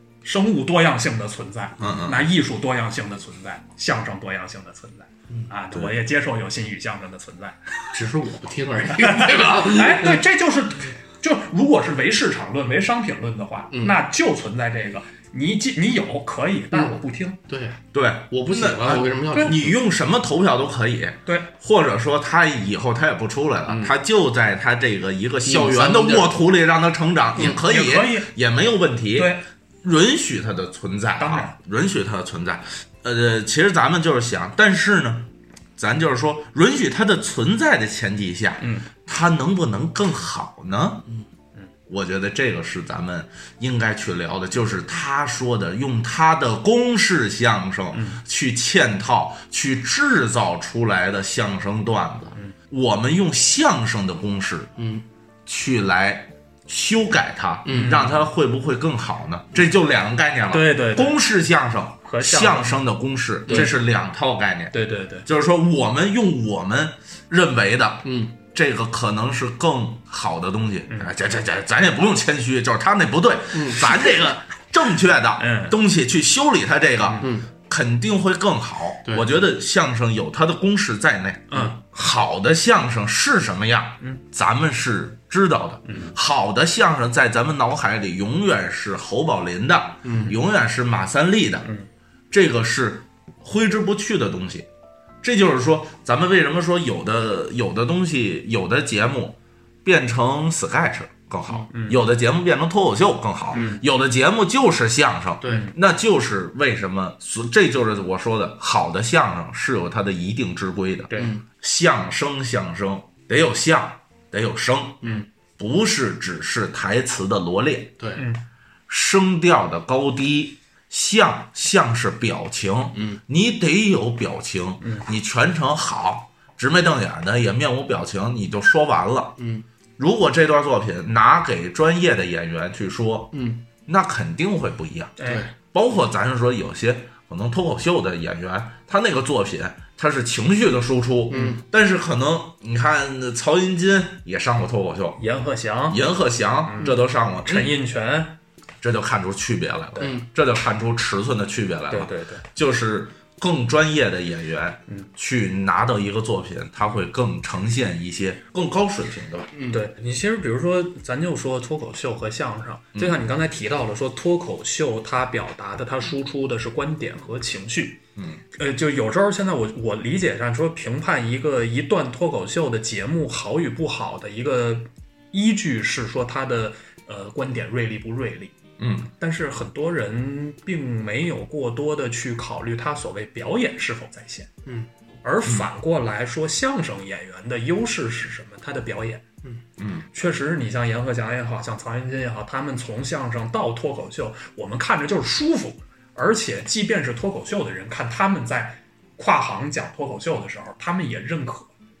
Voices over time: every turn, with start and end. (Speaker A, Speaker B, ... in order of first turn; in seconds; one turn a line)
Speaker A: 0.2-7.9
Speaker B: 1.8-2.3
Speaker C: 7.9-10.2
Speaker A: 9.0-17.4
Speaker C: 13.7-14.0
Speaker C: 17.5-17.8
Speaker B: 17.9-41.1
Speaker C: 18.3-19.8
Speaker A: 21.2-21.5
Speaker C: 23.7-23.9
Speaker C: 25.4-26.4
Speaker A: 27.4-28.3
Speaker A: 29.1-29.4
Speaker A: 31.2-31.5
Speaker A: 38.6-38.9
Speaker B: 41.9-54.7
Speaker A: 47.9-48.2
Speaker C: 54.8-55.0
Speaker B: 55.5-91.7
Speaker C: 57.6-58.0
Speaker A: 57.7-58.2
Speaker A: 60.5-61.2
Speaker A: 62.0-62.8
Speaker A: 63.5-63.7
Speaker A: 64.7-65.2
Speaker C: 68.0-68.3
Speaker C: 73.5-73.9
Speaker A: 75.4-75.8
Speaker C: 77.2-77.5
Speaker C: 79.0-79.3
Speaker A: 81.5-81.8
Speaker A: 85.9-86.1
Speaker C: 90.0-90.3
Speaker B: 92.3-94.7
Speaker B: 95.2-115.0
Speaker A: 101.7-102.0
Speaker A: 103.5-103.8
Speaker C: 105.4-105.7
Speaker A: 105.5-105.7
Speaker C: 111.1-111.4
Speaker B: 115.6-117.9
Speaker C: 118.0-118.2
Speaker A: 118.2-118.4
Speaker B: 118.9-129.4
Speaker C: 122.9-123.2
Speaker A: 124.8-125.0
Speaker C: 129.4-129.6
Speaker B: 130.0-133.3
Speaker C: 133.3-133.6
Speaker B: 133.8-135.2
Speaker A: 135.2-135.4
Speaker C: 135.2-135.5
Speaker B: 135.7-145.2
Speaker C: 141.3-141.6
Speaker A: 145.2-146.0
Speaker B: 145.9-147.7
Speaker A: 146.7-148.3
Speaker B: 148.8-159.5
Speaker C: 150.0-150.2
Speaker A: 151.9-152.4
Speaker C: 159.5-159.8
Speaker A: 159.7-168.0
Speaker B: 162.9-163.2
Speaker B: 168.2-168.4
Speaker A: 168.5-178.5
Speaker B: 178.8-179.1
Speaker A: 179.2-184.5
Speaker A: 185.2-189.2
Speaker B: 189.8-190.1
Speaker A: 190.1-201.7